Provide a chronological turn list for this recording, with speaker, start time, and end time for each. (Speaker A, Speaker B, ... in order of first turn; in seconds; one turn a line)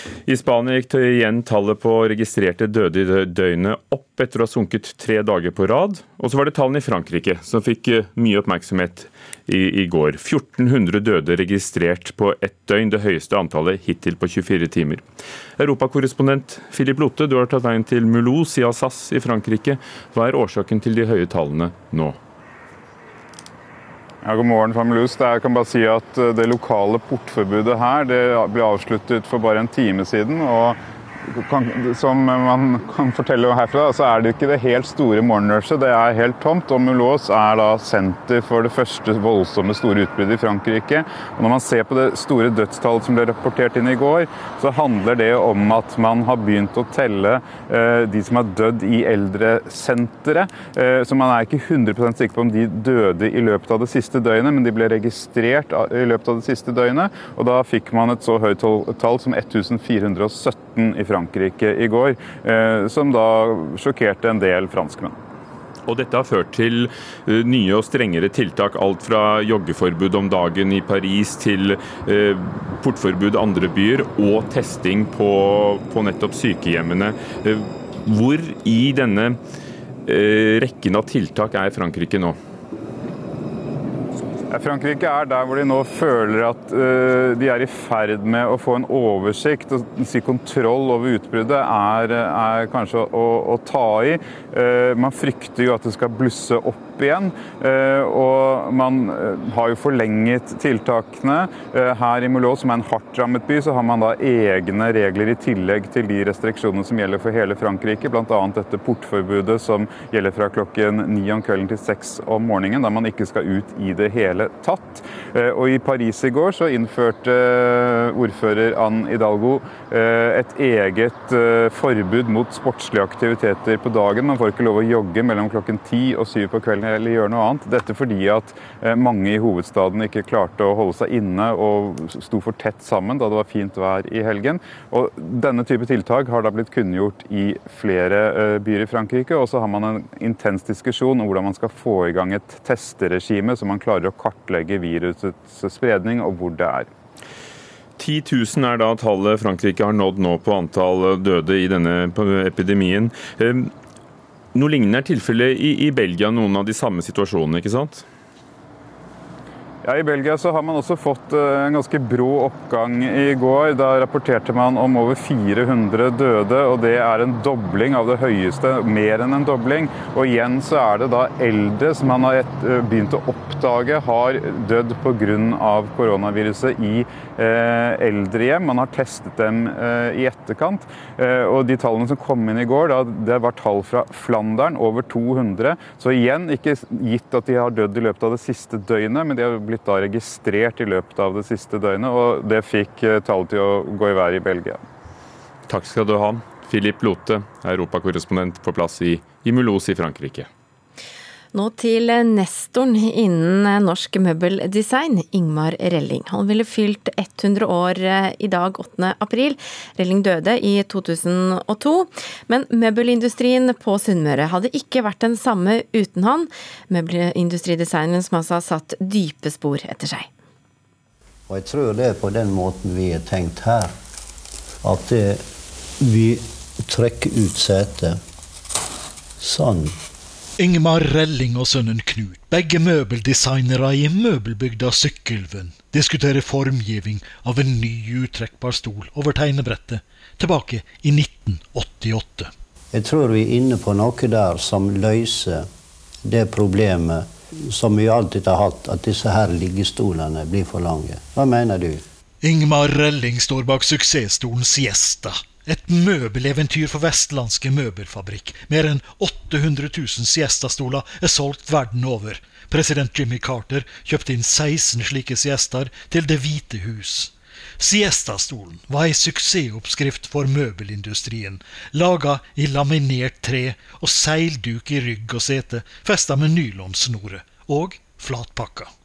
Speaker A: 0.3-15.1
Speaker A: 15.6-22.2
Speaker B: 24.2-65.2
Speaker A: 65.9-79.4
Speaker A: 80.1-82.4
Speaker B: 84.5-146.9
Speaker A: 148.0-153.7
Speaker A: 154.6-158.1
Speaker B: 159.8-194.8
Speaker A: 195.7-200.5
Speaker C: 201.5-220.3
Speaker D: 221.5-223.9
Speaker D: 224.8-225.5
Speaker D: 226.0-228.2
Speaker D: 229.4-230.0
Speaker E: 230.6-242.5
Speaker D: 242.9-245.7
Speaker D: 246.2-252.0
Speaker E: 252.4-278.9